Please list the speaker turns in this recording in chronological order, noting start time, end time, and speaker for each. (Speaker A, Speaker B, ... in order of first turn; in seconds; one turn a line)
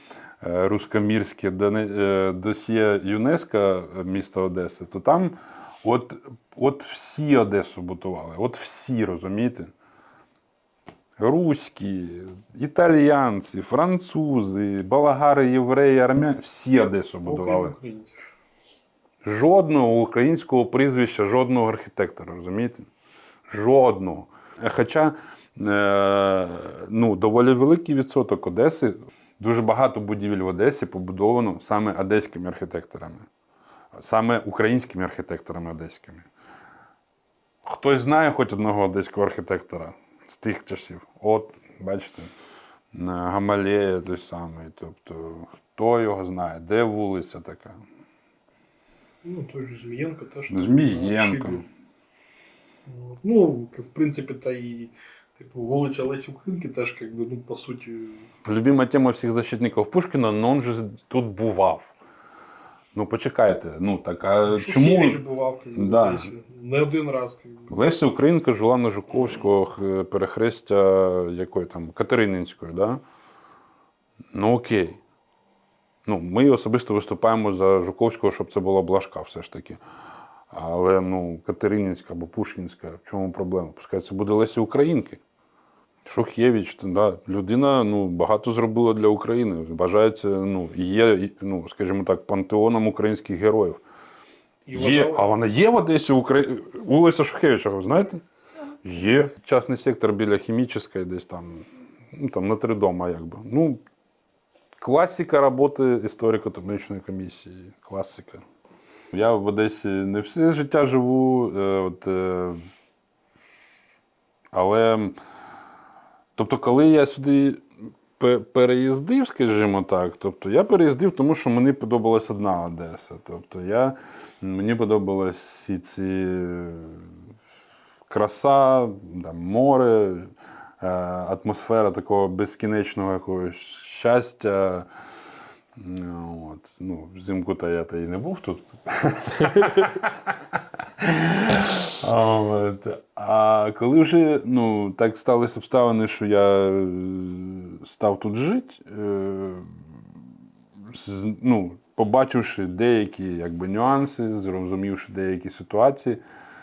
Speaker A: 0.4-9.7
Speaker A: 11.2-17.8
Speaker B: 17.3-18.2
Speaker A: 19.2-22.9
Speaker A: 23.5-33.3
Speaker A: 33.9-36.3
Speaker A: 37.6-42.3
Speaker A: 42.9-47.8
Speaker B: 49.2-51.6
Speaker A: 50.5-51.6
Speaker B: 52.9-58.3
Speaker A: 58.5-61.9
Speaker A: 62.9-65.2
Speaker B: 64.5-67.7
Speaker A: 65.8-66.3
Speaker A: 67.7-73.0
Speaker A: 74.3-75.0
Speaker A: 76.1-79.8
Speaker A: 80.5-85.2
Speaker A: 86.1-93.8
Speaker B: 94.7-95.3
Speaker A: 94.7-98.2
Speaker A: 98.8-103.8
Speaker A: 104.8-108.4
Speaker A: 109.1-112.6
Speaker A: 114.5-115.2
Speaker A: 116.4-117.6
Speaker A: 118.2-127.1
Speaker A: 128.1-130.3
Speaker A: 130.8-134.9
Speaker A: 135.8-140.3
Speaker A: 141.0-149.8
Speaker A: 150.9-156.2